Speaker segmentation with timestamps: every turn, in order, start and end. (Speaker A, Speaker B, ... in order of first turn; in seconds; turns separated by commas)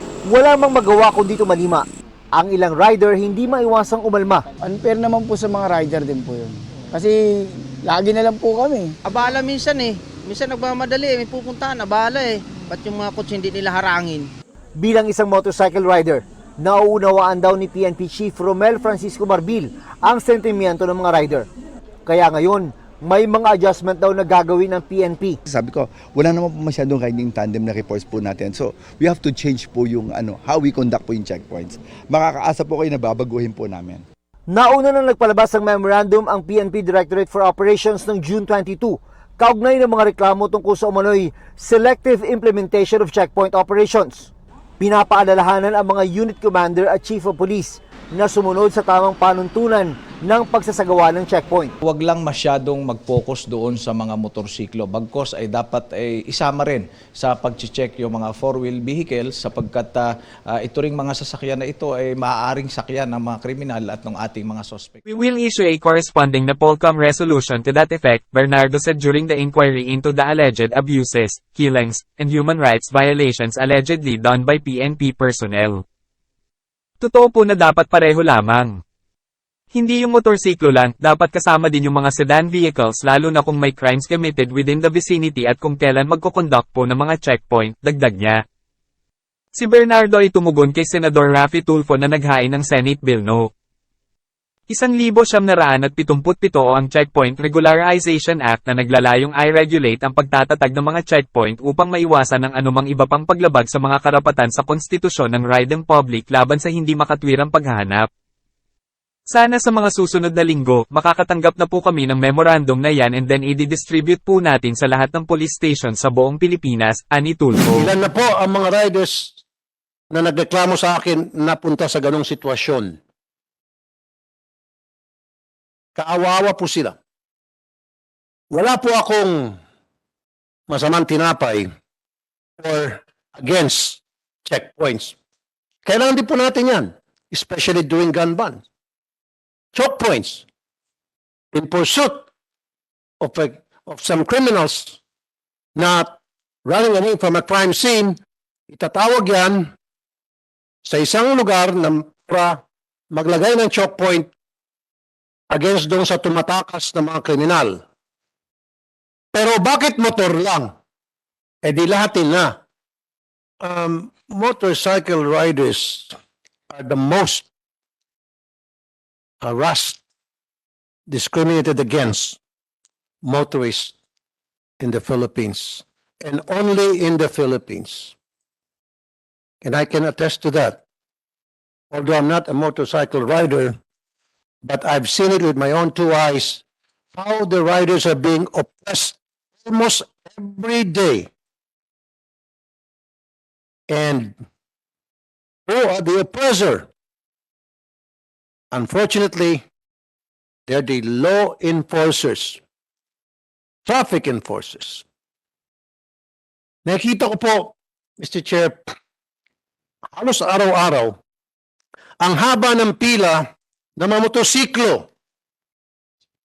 Speaker A: 0.3-1.8, Speaker A: 2.3-4.4, Speaker B: 4.6-7.2, Speaker B: 7.8-8.9, Speaker C: 9.0-14.3, Speaker A: 14.8-21.4, Speaker A: 22.1-25.4, Speaker D: 25.4-34.0, Speaker A: 34.5-51.7, Speaker E: 51.8-65.0, Speaker F: 65.1-75.8, Speaker F: 77.0-78.8, Speaker F: 79.7-88.4, Speaker F: 89.5-93.5, Speaker F: 94.7-108.1, Speaker F: 109.3-117.9, Speaker G: 117.7-119.3, Speaker G: 120.1-123.0, Speaker G: 126.0-127.0, Speaker G: 128.5-129.5, Speaker G: 130.7-131.7, Speaker G: 132.6-135.2, Speaker G: 135.8-138.6, Speaker G: 139.7-140.4, Speaker G: 141.5-142.3, Speaker G: 143.2-145.0, Speaker G: 145.8-148.2, Speaker G: 148.7-149.6, Speaker G: 150.8-152.6, Speaker G: 153.1-154.3, Speaker G: 155.5-157.8, Speaker G: 159.3-160.7, Speaker G: 161.6-162.5, Speaker G: 163.6-166.1, Speaker G: 166.7-167.5, Speaker G: 169.4-170.0, Speaker G: 171.1-172.4, Speaker G: 173.2-173.9, Speaker G: 174.8-178.1, Speaker G: 179.6-180.8, Speaker G: 181.9-183.8, Speaker G: 184.6-186.6, Speaker G: 187.1-191.3, Speaker G: 193.9-194.3, Speaker G: 195.7-196.9, Speaker G: 198.7-199.6, Speaker G: 200.7-202.6, Speaker G: 203.8-205.0, Speaker G: 206.8-208.9, Speaker G: 210.2-211.1, Speaker G: 212.2-213.4, Speaker G: 214.0-215.1